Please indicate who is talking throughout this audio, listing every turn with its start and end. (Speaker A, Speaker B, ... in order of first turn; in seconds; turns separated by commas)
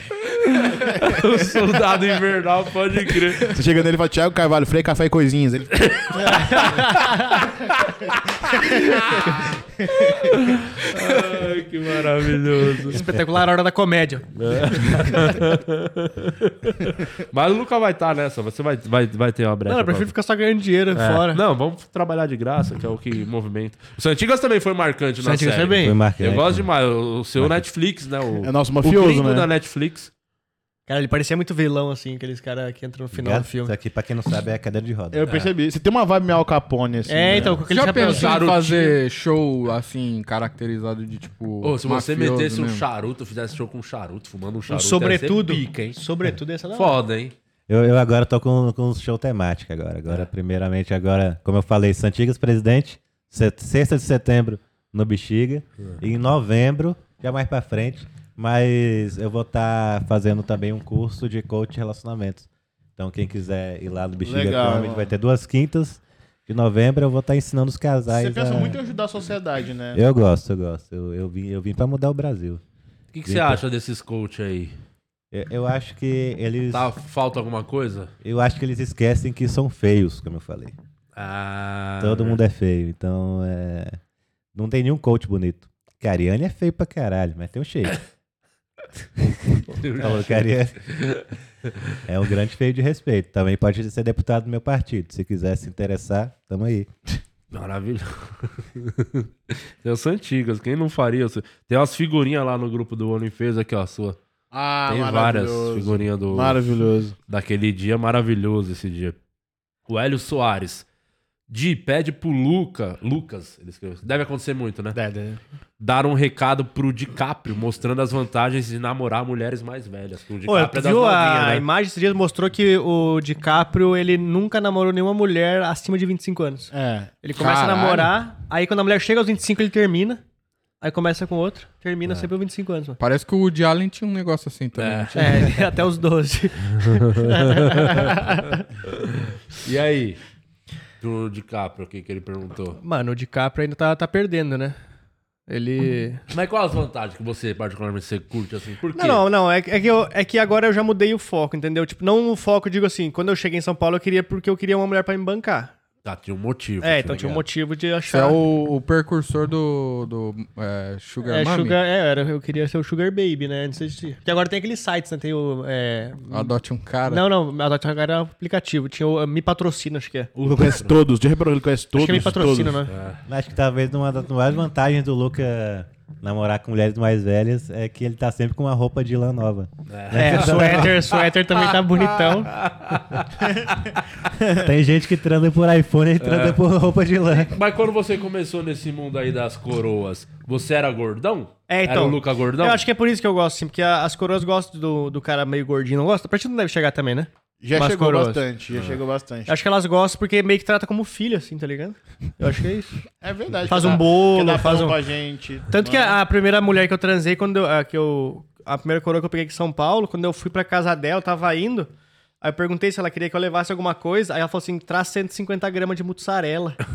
Speaker A: 0.2-3.6, Speaker B: 0.8-1.5, Speaker B: 3.4-6.4, Speaker A: 5.7-6.8, Speaker C: 6.1-7.4, Speaker A: 7.6-13.1, Speaker C: 12.9-15.1, Speaker A: 14.3-20.1, Speaker C: 19.6-21.4, Speaker A: 20.9-30.1, Speaker C: 25.2-25.9, Speaker D: 25.8-26.7, Speaker D: 27.4-27.6, Speaker B: 28.4-29.5, Speaker C: 30.9-33.7, Speaker D: 33.1-35.2, Speaker B: 35.1-37.6, Speaker C: 37.1-38.4, Speaker E: 37.7-42.8, Speaker A: 37.9-39.0, Speaker A: 41.6-46.0, Speaker C: 44.7-47.0, Speaker A: 46.7-47.3, Speaker D: 47.7-68.8, Speaker B: 64.2-65.1, Speaker B: 68.1-70.0, Speaker D: 69.9-72.6, Speaker A: 73.1-74.7, Speaker D: 73.2-73.6, Speaker D: 75.3-76.9, Speaker A: 76.7-78.1, Speaker D: 78.2-80.7, Speaker A: 81.2-82.4, Speaker D: 82.0-84.0, Speaker D: 84.5-88.0, Speaker D: 89.2-90.8, Speaker A: 89.7-91.2, Speaker D: 92.0-96.9, Speaker A: 97.5-104.2, Speaker B: 104.5-107.2, Speaker A: 104.9-106.6, Speaker A: 107.3-109.2, Speaker A: 109.9-110.8, Speaker A: 111.5-115.0, Speaker C: 114.9-115.4, Speaker A: 115.8-121.6, Speaker C: 120.4-126.7, Speaker B: 126.7-127.2, Speaker C: 127.2-130.2, Speaker E: 127.4-128.1, Speaker C: 130.8-133.0, Speaker E: 133.0-135.7, Speaker A: 134.8-135.3, Speaker C: 135.1-138.6, Speaker A: 136.8-138.1, Speaker A: 138.9-140.2, Speaker A: 141.0-142.8, Speaker C: 142.8-144.8, Speaker C: 145.5-146.2, Speaker A: 146.3-149.2, Speaker C: 148.9-155.7, Speaker A: 156.0-157.4, Speaker C: 156.8-158.4, Speaker E: 158.1-161.8, Speaker C: 161.2-170.3, Speaker E: 166.3-167.2, Speaker B: 170.3-172.8, Speaker C: 171.9-172.9, Speaker A: 172.9-173.2, Speaker D: 173.2-181.0, Speaker A: 179.9-183.4, Speaker C: 180.1-182.5, Speaker D: 184.5-187.5, Speaker A: 186.2-186.6, Speaker A: 187.3-192.8, Speaker C: 191.7-198.4, Speaker B: 197.6-199.5, Speaker A: 198.7-199.0, Speaker C: 199.5-203.0, Speaker B: 203.2-206.2, Speaker C: 203.7-205.0, Speaker C: 205.7-211.9, Speaker C: 212.4-216.8